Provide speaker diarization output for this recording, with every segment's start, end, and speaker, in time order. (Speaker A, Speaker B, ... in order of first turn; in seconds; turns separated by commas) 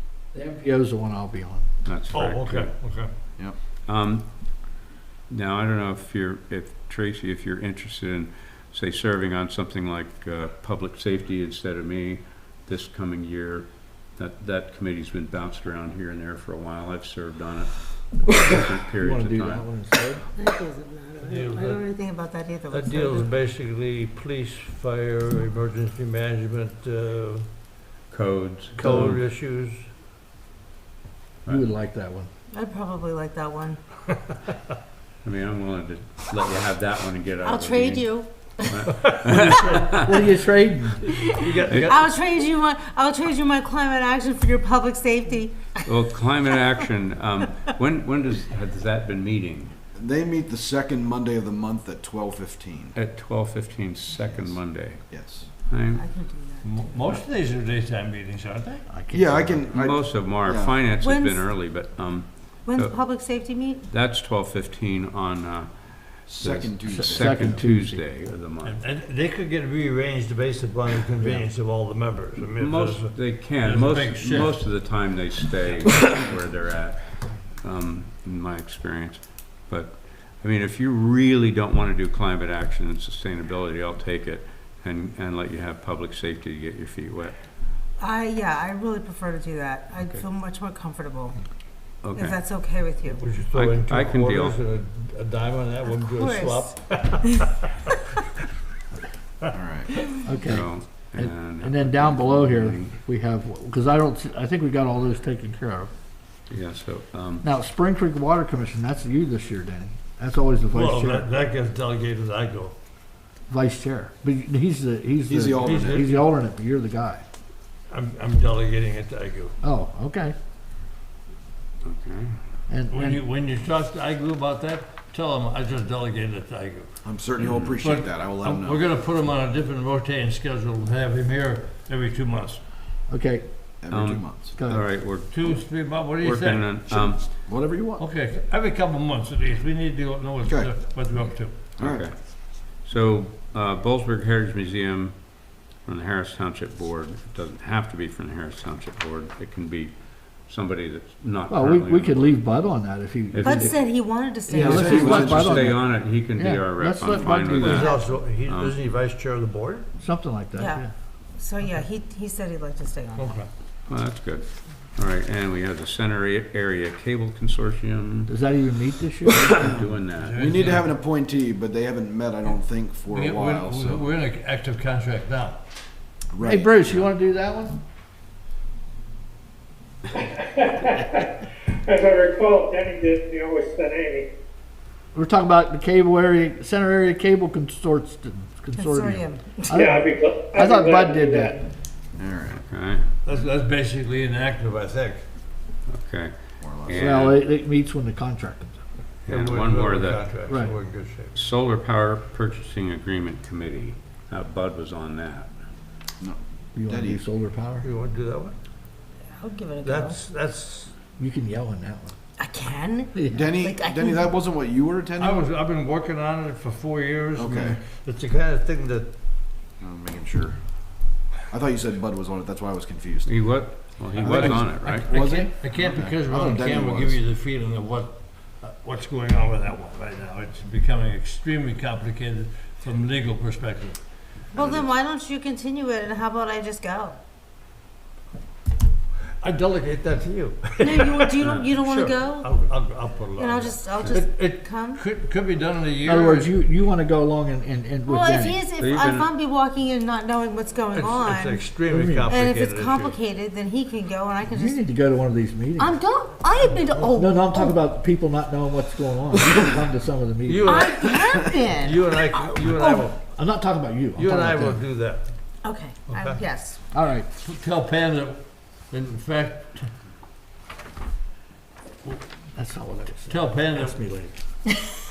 Speaker A: 0.3-1.7, Speaker B: 1.8-2.7, Speaker C: 2.1-3.1, Speaker B: 3.9-4.8, Speaker B: 5.3-19.7, Speaker A: 19.0-20.3, Speaker D: 20.4-23.3, Speaker C: 21.2-21.9, Speaker C: 22.7-27.5, Speaker B: 28.1-29.2, Speaker C: 28.8-29.9, Speaker A: 31.5-32.3, Speaker D: 32.5-33.8, Speaker B: 35.2-40.0, Speaker D: 37.4-40.1, Speaker C: 39.0-39.9, Speaker A: 39.8-41.1, Speaker C: 41.1-42.0, Speaker D: 41.2-45.9, Speaker B: 45.9-49.7, Speaker E: 49.9-53.0, Speaker B: 53.0-55.1, Speaker E: 54.2-55.5, Speaker B: 55.7-56.0, Speaker D: 55.9-56.9, Speaker C: 56.6-58.9, Speaker A: 58.9-59.7, Speaker E: 59.1-60.9, Speaker B: 59.7-63.2, Speaker D: 60.9-61.5, Speaker D: 62.6-63.9, Speaker B: 63.9-68.8, Speaker E: 66.3-67.6, Speaker A: 66.8-68.0, Speaker C: 68.6-74.6, Speaker B: 72.5-87.4, Speaker D: 88.0-91.4, Speaker B: 92.0-92.4, Speaker D: 92.1-93.2, Speaker C: 93.1-97.9, Speaker B: 93.5-94.6, Speaker D: 95.8-97.3, Speaker E: 99.5-99.9, Speaker A: 100.2-105.9, Speaker B: 100.4-102.9, Speaker B: 106.5-107.5, Speaker A: 107.4-111.3, Speaker C: 110.7-112.8, Speaker A: 113.5-117.2, Speaker E: 115.3-116.3, Speaker C: 117.9-119.5, Speaker A: 119.6-120.3, Speaker B: 121.8-122.4, Speaker A: 122.7-123.2, Speaker C: 122.9-126.9, Speaker E: 127.0-128.9, Speaker B: 127.4-127.8, Speaker C: 127.8-132.6, Speaker A: 133.1-133.5, Speaker E: 133.8-134.6, Speaker B: 133.9-137.2, Speaker A: 134.6-134.9, Speaker C: 135.3-136.8, Speaker E: 136.9-138.0, Speaker C: 138.0-141.7, Speaker E: 140.4-140.8, Speaker E: 141.8-142.1, Speaker B: 141.8-152.4, Speaker A: 151.5-157.9, Speaker B: 153.3-153.8, Speaker D: 153.4-155.5, Speaker B: 154.6-158.8, Speaker C: 154.6-155.2, Speaker E: 154.8-155.7, Speaker C: 157.4-159.9, Speaker D: 157.7-158.1, Speaker A: 160.0-160.9, Speaker D: 160.6-163.4, Speaker C: 163.2-163.5, Speaker B: 163.9-168.3, Speaker A: 168.3-169.8, Speaker B: 169.4-170.7, Speaker C: 170.2-170.9, Speaker E: 170.4-174.1, Speaker C: 173.1-175.6, Speaker E: 176.3-177.1, Speaker A: 176.4-177.8, Speaker F: 180.4-181.0, Speaker F: 181.8-184.3, Speaker A: 185.1-191.6, Speaker D: 188.8-189.9, Speaker F: 189.8-191.6, Speaker E: 192.2-192.6, Speaker B: 192.5-193.1, Speaker C: 193.2-195.3, Speaker B: 195.9-197.4, Speaker E: 196.6-197.2, Speaker A: 196.9-198.8, Speaker B: 199.2-200.3, Speaker C: 199.3-201.3, Speaker B: 201.3-205.5, Speaker E: 206.2-207.2, Speaker A: 206.8-207.8, Speaker C: 207.8-208.6, Speaker D: 209.4-210.2, Speaker C: 209.8-210.9, Speaker A: 211.2-212.2, Speaker D: 212.4-214.3, Speaker E: 213.3-215.5, Speaker C: 215.2-219.1, Speaker E: 217.4-217.8, Speaker E: 219.8-220.6, Speaker E: 221.4-227.2, Speaker B: 223.2-225.1, Speaker C: 224.2-234.1, Speaker A: 224.9-225.5, Speaker D: 234.5-237.2, Speaker B: 234.6-234.9, Speaker C: 239.4-246.5, Speaker D: 240.8-242.5, Speaker B: 241.4-241.7, Speaker D: 243.4-245.0, Speaker A: 246.1-248.6, Speaker D: 248.1-251.7, Speaker B: 248.8-249.3, Speaker C: 250.9-253.2, Speaker A: 251.9-252.3, Speaker D: 252.3-254.8, Speaker A: 254.5-256.0, Speaker D: 255.8-257.8, Speaker A: 257.1-260.7, Speaker C: 260.5-263.2, Speaker D: 260.6-263.0, Speaker A: 263.2-264.8, Speaker C: 264.2-265.4, Speaker D: 265.6-266.8, Speaker C: 266.1-266.4, Speaker A: 266.9-267.3, Speaker C: 267.4-269.9, Speaker A: 272.5-274.4, Speaker C: 273.3-274.3